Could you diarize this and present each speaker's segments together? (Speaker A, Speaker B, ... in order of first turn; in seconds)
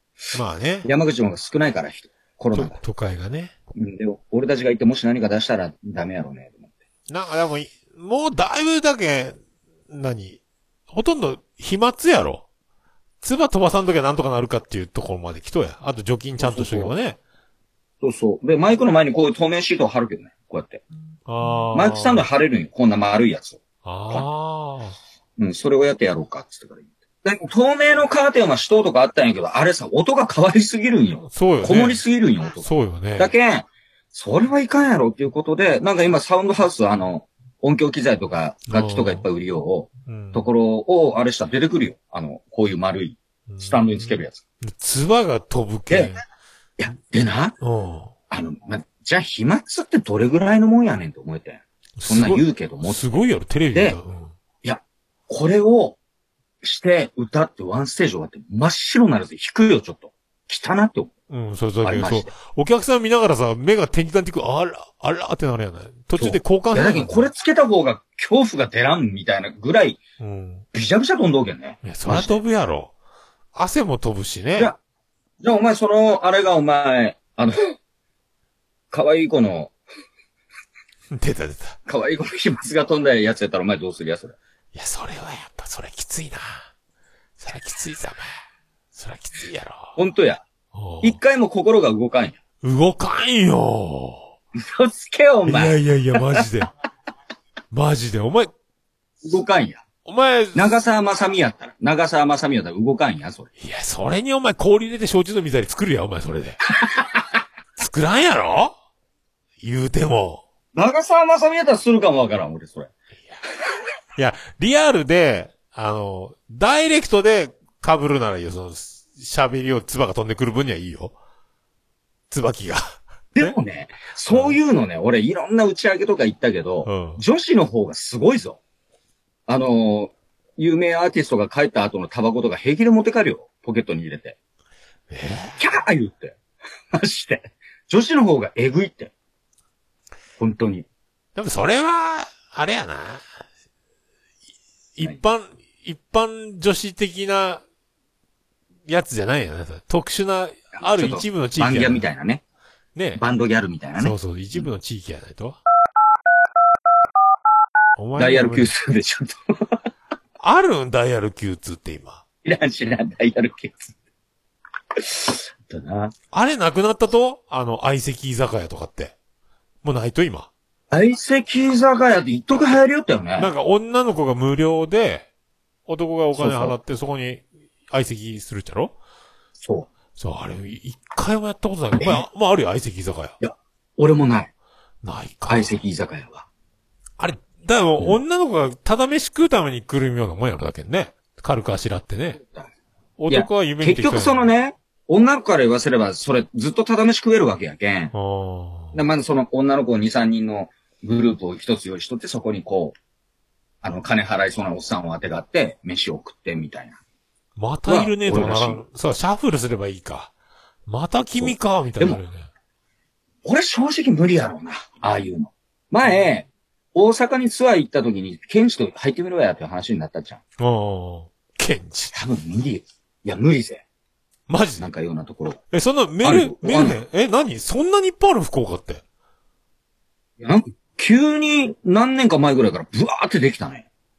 Speaker A: 0.3-0.9, 2.5-3.5, 7.1-12.4, 13.2-17.2, 21.2-22.3, 23.8-24.9, 31.2-32.0, 32.6-33.3, 38.7-39.2, 40.0-40.5, 43.5-46.2, 47.6-48.1, 52.0-54.3, 61.3-67.3, 70.2-70.6, 71.8-72.9, 73.5-74.7, 81.1-81.8, 84.7-86.7, 87.4-88.3, 88.9-89.9, 90.7-91.2, 92.6-94.3, 95.5-96.7, 97.7-98.5, 100.0-100.8, 103.6-106.6, 107.8-108.7, 109.6-110.4, 114.2-121.1, 122.3-123.5, 124.3-124.6, 126.8-127.2, 135.1-135.6, 141.3-143.2, 144.9-147.6, 148.8-152.0, 152.9-153.2, 154.0-155.6, 157.9-158.7, 160.4-162.2, 166.3-169.1, 169.8-170.5, 173.4-175.3, 175.8-178.9, 180.2-183.3, 185.0-185.8, 187.2-192.4, 193.2-194.5, 198.1-199.0, 207.6-210.3, 210.9-212.5, 220.6-222.1, 224.5-224.9, 225.7-229.0
Speaker B: 0.8-2.8, 3.7-6.7, 16.4-16.9, 18.0-20.8, 21.7-24.2, 25.4-44.4, 45.9-46.1, 46.8-47.6, 48.3-53.2, 53.7-54.0, 54.6-56.0, 56.6-61.1, 61.8-62.3, 66.2-70.0, 70.7-72.4, 75.4-77.7, 78.9-79.7, 81.8-84.3, 90.0-90.4, 91.0-92.4, 94.5-95.8, 99.2-99.8, 100.5-103.5, 106.8-107.2, 110.7-112.9, 123.3-128.6, 129.5-134.3, 135.6-136.4, 136.9-139.1, 140.4-140.8, 150.8-152.4, 153.2-154.7, 158.2-159.8, 162.4-163.9, 165.0-166.1, 170.9-173.5, 176.3-176.8, 179.6-179.9, 182.0-182.2, 183.4-184.5, 185.5-186.4, 192.4-192.7, 193.3-198.1, 198.9-202.9, 203.8-207.0, 207.8-208.8, 211.3-212.2, 213.4-220.4, 222.1-223.8, 224.8-225.6, 226.2-227.0, 230.4-233.8